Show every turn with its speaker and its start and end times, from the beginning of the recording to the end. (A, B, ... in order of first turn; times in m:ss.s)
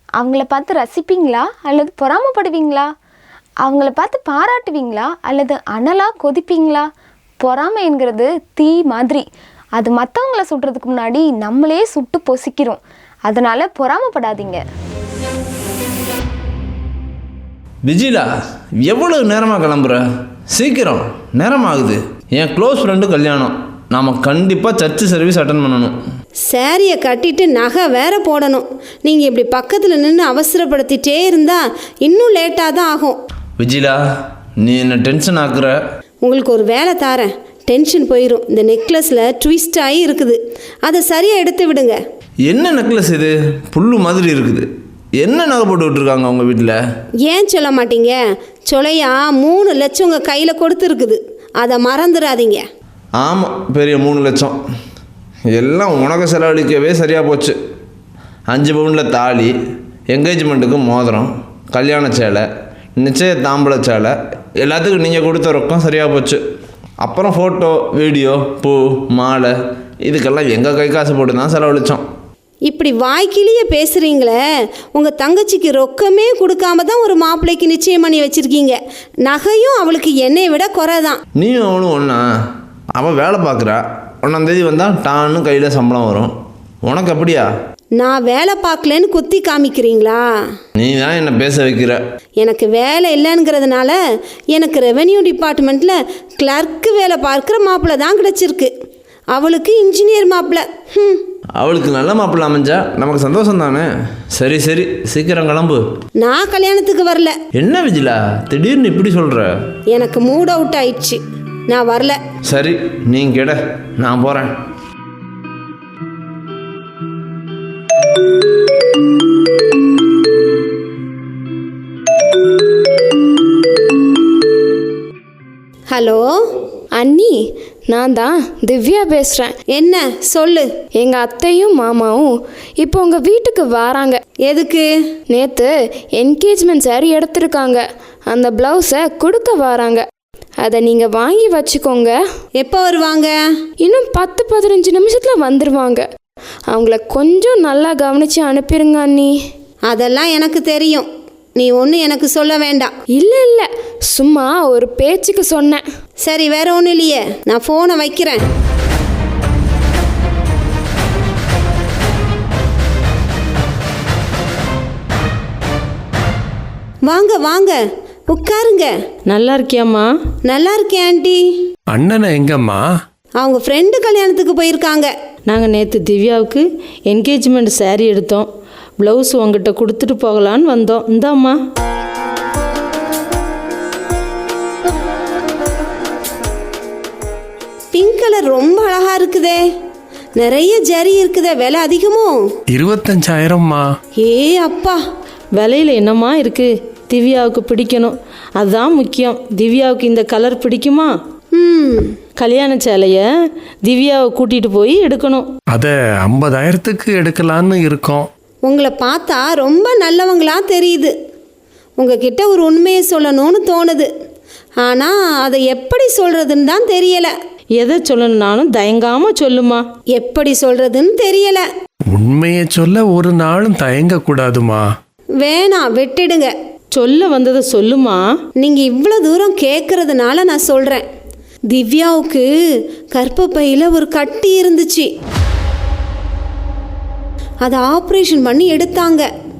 0:00.2-0:02.9 A
0:03.6-0:06.9 A
0:07.4-0:09.2 A
0:09.8-0:14.6 A
0:17.9-0:18.3 B
0:18.8-0:25.9 B
0:26.4-0:33.2 C
0:33.6-0:34.0 B
0:34.6-0:35.8 B
0:36.2-0:42.0 C
0:42.5-0:44.7 B
0:45.2-0:46.8 B
0:47.3-0:52.6 C
0:53.2-0:54.6 B
0:55.5-0:57.6 B
0:58.5-0:59.5 B
1:00.1-1:02.4 B
1:03.0-1:06.4 B
1:07.0-1:12.0 B
1:12.7-1:14.4 C
1:14.9-1:21.2 C
1:21.4-1:22.2 B
1:23.0-1:26.3 B
1:26.8-1:27.5 B
1:28.0-1:30.2 C
1:30.8-1:32.0 B
1:32.4-1:34.0 C
1:34.5-1:38.7 C
1:39.3-1:41.2 C
1:41.6-1:45.8 B
1:46.2-1:47.4 C
1:47.6-1:49.5 B
1:49.9-1:52.2 C
1:52.5-1:54.5 B
2:05.9-2:06.5 C
2:06.9-2:09.6 D
2:09.7-2:10.7 C
2:11.0-2:14.2 D
2:14.4-2:14.9 C
2:15.3-2:20.0 D
2:20.6-2:22.2 D
2:22.6-2:23.3 C
2:23.8-2:26.0 D
2:26.7-2:29.3 D
2:29.9-2:32.9 C
2:33.1-2:35.8 D
2:36.2-2:38.4 C
2:47.1-2:48.9 C
2:49.3-2:50.1 E
2:50.4-2:51.4 C
2:51.9-2:52.9 F
2:53.4-2:55.1 C
2:55.5-2:58.5 E
2:59.0-3:01.6 E
3:07.9-3:09.6 C
3:10.4-3:12.5 C
3:12.7-3:13.8 F
3:14.2-3:15.0 C
3:15.6-3:21.1 E
3:21.5-3:22.2 C
3:22.4-3:23.2 E
3:23.8-3:25.5 E
3:25.7-3:28.3 F
3:28.6-3:31.1 C
3:32.0-3:34.1 C
3:34.8-3:37.3 C
3:37.8-3:39.8 E
3:40.1-3:41.6 C
3:42.1-3:44.8 F
3:45.4-3:46.5 C
3:46.9-3:48.3 E
3:48.6-3:51.0 C
3:51.7-3:55.1 C
3:57.6-3:59.3 C